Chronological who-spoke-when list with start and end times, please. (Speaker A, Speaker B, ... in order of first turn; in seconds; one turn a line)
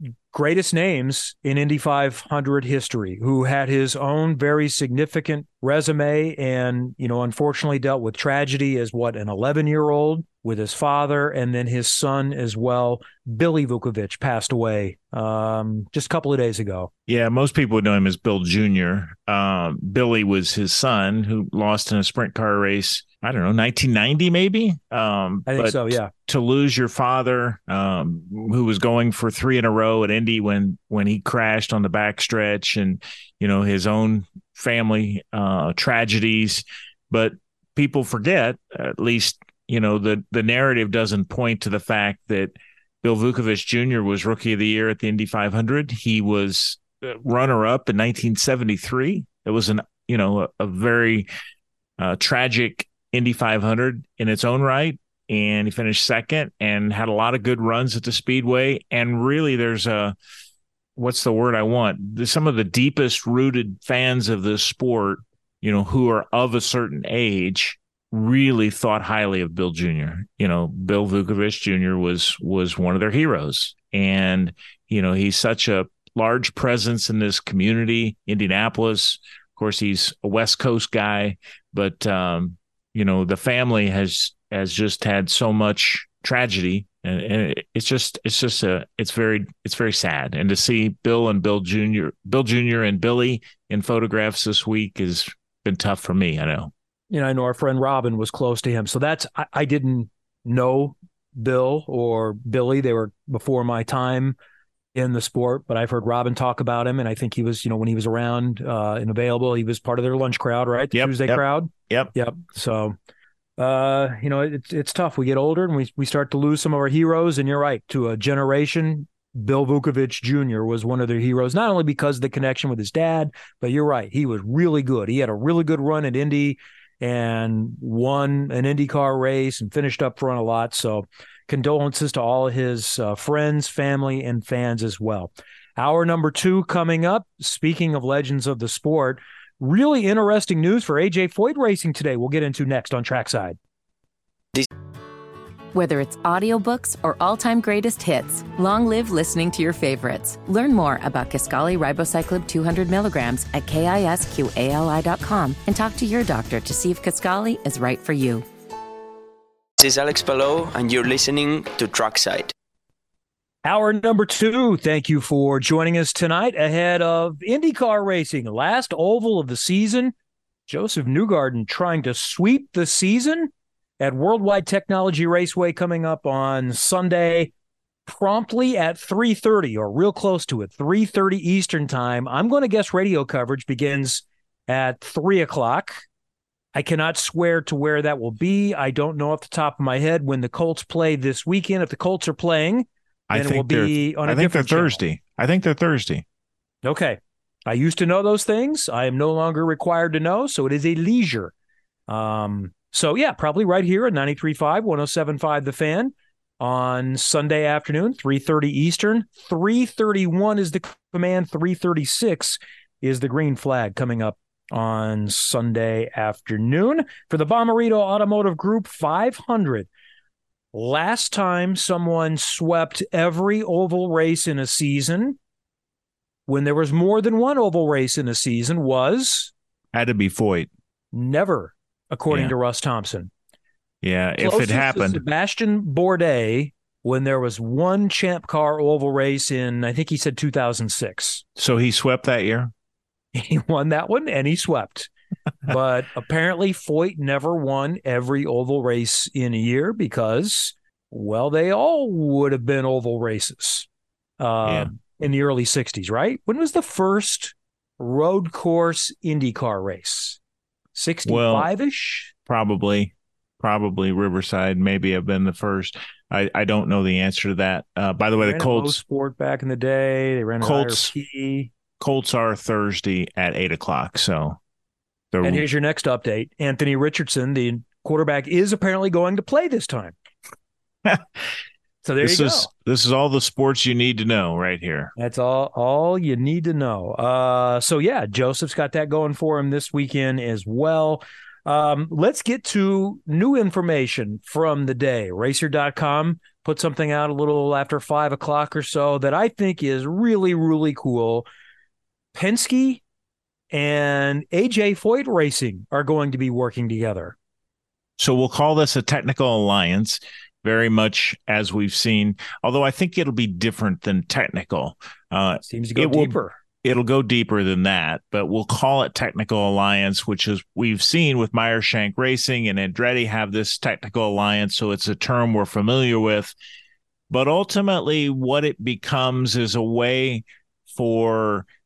Speaker A: 0.3-16.9
Speaker B: 17.1-51.3
Speaker A: 25.5-26.1
Speaker B: 52.0-60.2
Speaker B: 61.0-96.7
Speaker A: 97.1-104.4
Speaker A: 105.0-113.0
Speaker B: 110.9-112.1
Speaker A: 113.6-143.6
Speaker C: 145.7-158.4
Speaker D: 159.8-162.5
Speaker A: 163.7-170.1
Speaker A: 170.7-177.5
Speaker A: 178.1-186.0
Speaker A: 186.7-195.0
Speaker B: 193.3-196.2
Speaker A: 196.8-201.5
Speaker A: 202.1-219.9
Speaker A: 220.7-225.4
Speaker A: 226.5-229.5
Speaker B: 229.9-230.7
Speaker A: 231.1-233.3
Speaker B: 234.0-235.2
Speaker A: 234.4-241.4
Speaker B: 241.6-242.7
Speaker A: 243.3-245.1
Speaker A: 245.7-253.9
Speaker A: 254.4-260.4
Speaker A: 260.9-262.3
Speaker B: 261.3-261.7
Speaker B: 262.5-269.0
Speaker A: 268.4-271.7
Speaker B: 270.6-271.1
Speaker B: 272.0-274.6
Speaker B: 275.3-275.6
Speaker A: 275.4-280.1
Speaker B: 281.1-281.4
Speaker A: 282.0-282.7
Speaker B: 282.2-285.1
Speaker A: 285.2-301.5
Speaker A: 302.3-303.0
Speaker A: 303.7-307.4
Speaker B: 308.2-326.5
Speaker A: 315.6-316.6
Speaker B: 327.3-331.7